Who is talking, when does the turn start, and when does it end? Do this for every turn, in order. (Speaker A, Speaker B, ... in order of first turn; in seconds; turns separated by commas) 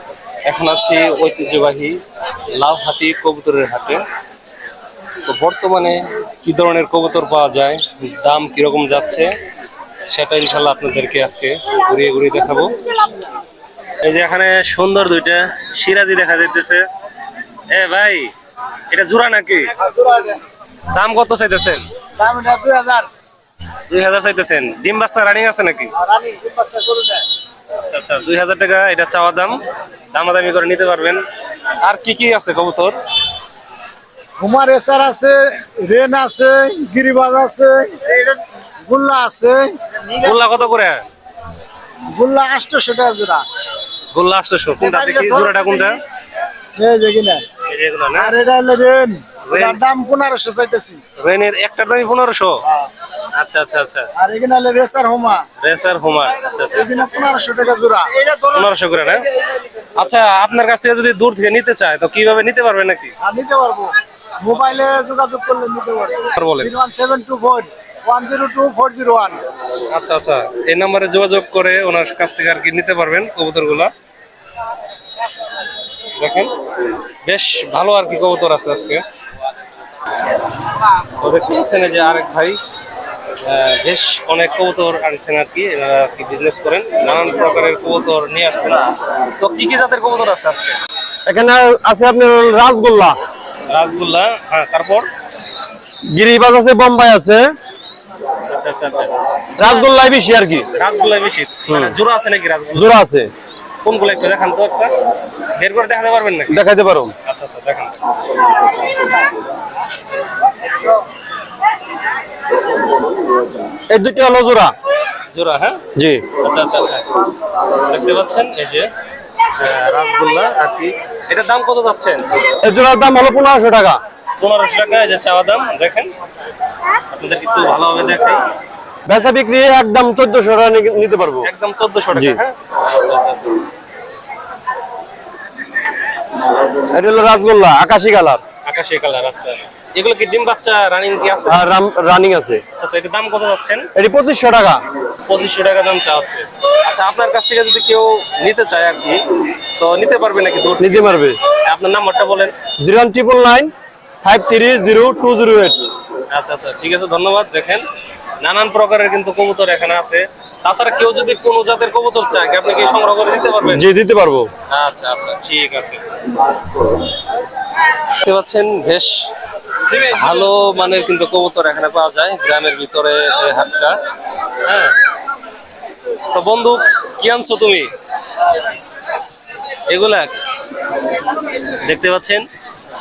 Speaker A: 0.5-2.0, Speaker A: 2.5-4.0, Speaker A: 5.3-9.3, Speaker A: 10.1-12.7, Speaker A: 14.0-16.9, Speaker A: 17.7-18.3, Speaker A: 18.9-19.7, Speaker B: 20.0-20.4, Speaker A: 20.9-21.8, Speaker B: 22.2-23.1, Speaker A: 23.9-25.9, Speaker B: 26.0-27.2, Speaker A: 27.9-29.6, Speaker A: 30.1-31.2, Speaker A: 31.8-33.0, Speaker B: 34.4-38.2, Speaker B: 38.9-39.8, Speaker A: 40.2-41.0, Speaker B: 42.1-43.5, Speaker A: 44.1-46.0, Speaker B: 46.8-47.5, Speaker A: 47.7-48.3, Speaker B: 48.2-51.0, Speaker A: 49.5-49.8, Speaker A: 51.2-52.6, Speaker A: 53.3-54.1, Speaker B: 54.2-55.5, Speaker A: 55.6-56.9, Speaker B: 56.7-58.4, Speaker A: 58.4-59.2, Speaker A: 60.0-63.1, Speaker B: 63.2-69.4, Speaker A: 66.3-66.7, Speaker A: 69.9-73.9, Speaker A: 76.2-76.5, Speaker A: 77.2-79.0, Speaker A: 81.2-82.6, Speaker A: 83.4-90.8, Speaker C: 91.2-93.2, Speaker A: 93.7-95.1, Speaker C: 96.1-97.5, Speaker A: 98.5-99.9, Speaker C: 99.6-100.7, Speaker A: 100.7-103.0, Speaker C: 101.7-101.9, Speaker C: 102.7-103.3, Speaker A: 103.8-104.9, Speaker A: 105.5-106.6, Speaker C: 106.5-107.1, Speaker A: 107.2-108.0, Speaker C: 113.9-114.8, Speaker A: 115.3-115.8, Speaker C: 116.0-116.3, Speaker A: 116.4-117.1, Speaker A: 117.7-118.9, Speaker A: 119.5-122.2, Speaker C: 122.6-124.0, Speaker A: 124.4-126.1, Speaker A: 127.1-128.4, Speaker C: 129.1-131.5, Speaker A: 131.4-133.6, Speaker C: 132.1-132.4, Speaker C: 136.9-138.4, Speaker A: 138.7-141.6, Speaker C: 141.5-142.6, Speaker A: 142.8-143.9, Speaker C: 143.9-144.8, Speaker A: 145.3-152.6, Speaker C: 150.8-151.4, Speaker C: 152.8-155.8, Speaker A: 156.3-157.8, Speaker A: 158.4-163.9, Speaker C: 163.7-164.5, Speaker A: 164.7-166.0, Speaker A: 168.2-169.2, Speaker A: 169.9-174.0, Speaker A: 174.6-174.9, Speaker A: 176.3-177.9, Speaker A: 179.9-180.3, Speaker A: 181.8-182.4